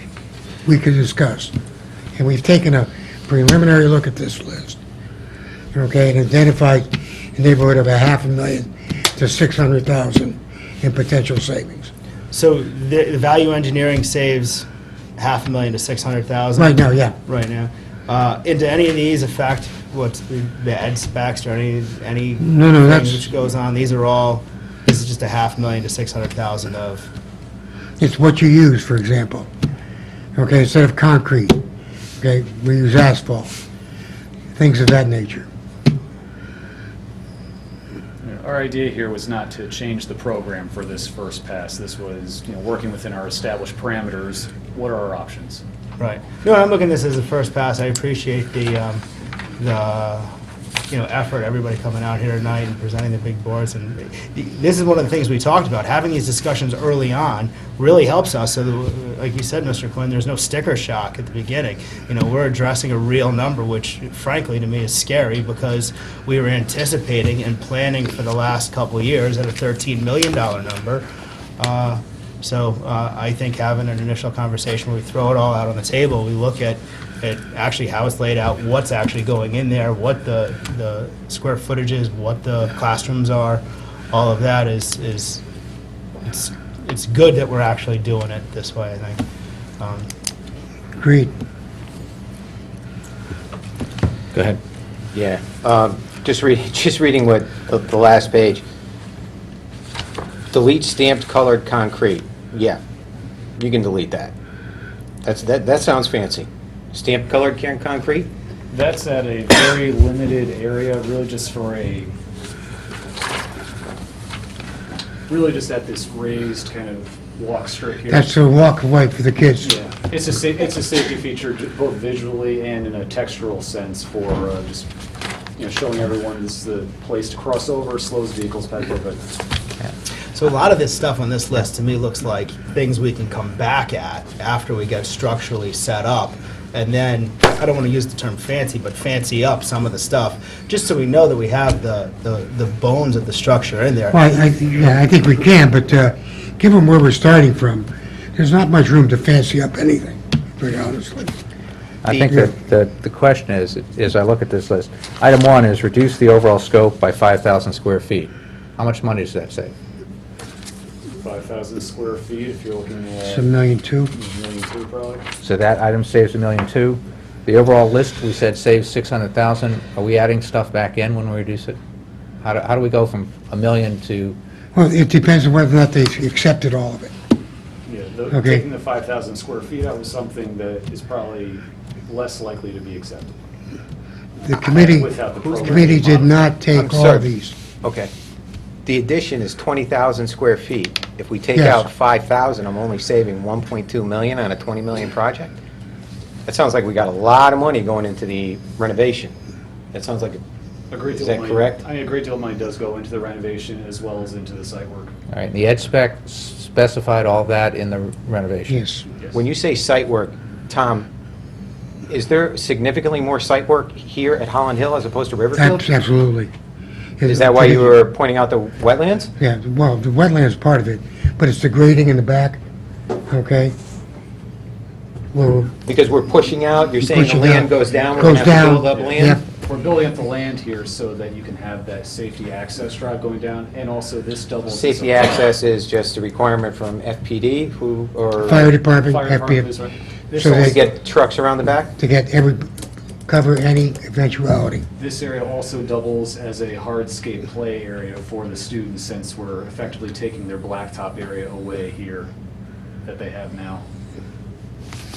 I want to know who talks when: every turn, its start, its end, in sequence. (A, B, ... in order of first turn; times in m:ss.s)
0:00.6-0:01.5 A
0:02.2-0:04.8 A
0:05.7-0:11.9 A
0:12.3-0:14.6 B
0:15.2-0:27.1 B
0:16.6-0:17.1 A
0:22.4-0:23.2 A
0:28.0-0:29.5 A
0:30.4-0:31.6 A
0:32.2-0:33.5 A
0:34.5-0:35.5 A
0:38.2-0:45.6 C
0:46.0-0:49.0 B
0:49.6-0:50.3 B
0:50.9-1:11.0 B
1:11.6-1:25.4 B
1:26.2-1:29.2 B
1:29.8-1:30.1 B
1:31.0-1:31.3 A
1:34.3-1:34.6 D
1:35.1-1:38.6 E
1:40.5-1:42.8 E
1:43.6-1:44.3 E
1:45.2-1:48.2 E
1:48.7-1:52.1 C
1:55.3-1:58.4 C
1:58.1-1:59.8 A
1:59.6-2:04.9 C
2:05.6-2:09.2 C
2:10.3-2:24.2 B
2:24.1-2:31.3 A
2:32.0-2:39.7 D
2:32.2-2:32.5 A
2:41.2-2:43.5 C
2:43.2-2:44.1 A
2:44.1-2:45.2 C
2:45.4-2:51.8 D
2:52.4-2:54.4 D
2:54.7-2:57.1 A
2:57.8-3:03.4 C
2:58.3-2:58.6 A
3:04.4-3:07.6 A
3:04.6-3:06.4 C
3:07.0-3:07.3 E
3:07.8-3:08.1 E
3:08.8-3:15.5 E
3:11.5-3:11.9 A
3:16.4-3:19.3 E
3:19.9-3:20.4 E
3:20.9-3:25.1 C
3:25.3-3:28.8 D
3:28.7-3:29.1 A
3:29.3-3:31.0 E
3:32.1-3:35.8 E
3:35.5-3:36.5 A
3:37.2-3:38.0 A
3:37.3-3:39.3 E
3:39.4-3:42.6 A
3:43.3-3:43.7 A
3:45.3-3:45.7 A
3:45.8-3:49.2 E
3:47.0-3:49.4 A
3:47.9-3:55.4 C
3:55.4-3:58.5 E
3:58.4-3:59.7 A
3:58.5-4:00.9 C
4:00.3-4:00.8 A
4:01.1-4:01.9 E
4:02.0-4:02.7 A
4:03.2-4:04.8 A
4:05.0-4:12.3 C
4:13.0-4:13.8 C